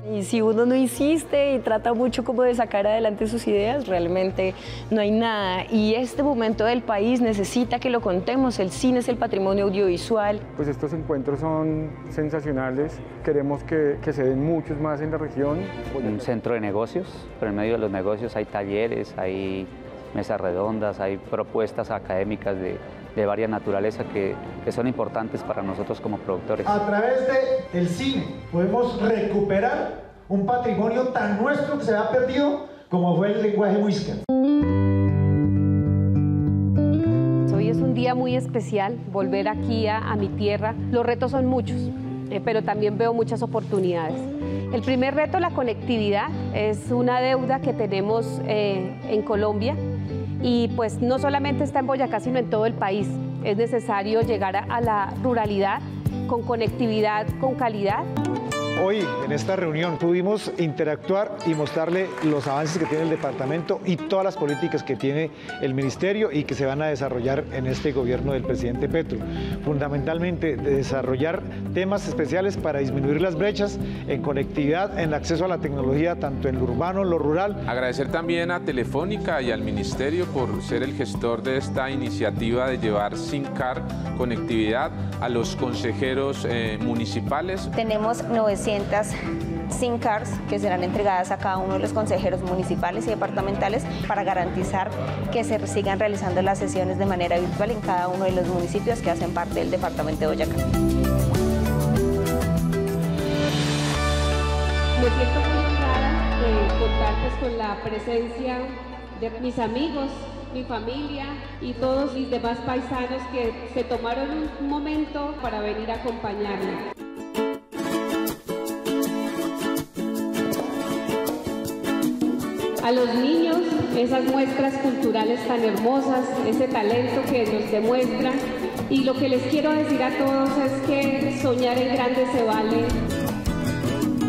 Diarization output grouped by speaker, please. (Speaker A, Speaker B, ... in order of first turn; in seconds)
Speaker A: 0.4-9.5
Speaker B: 10.6-16.2
Speaker C: 16.0-26.8
Speaker D: 26.6-34.2, 58.8-77.6
Speaker E: 37.5-49.8, 50.4-58.1, 105.0-116.8, 122.8-132.9
Speaker F: 77.7-87.7
Speaker G: 87.8-89.1, 89.7-100.6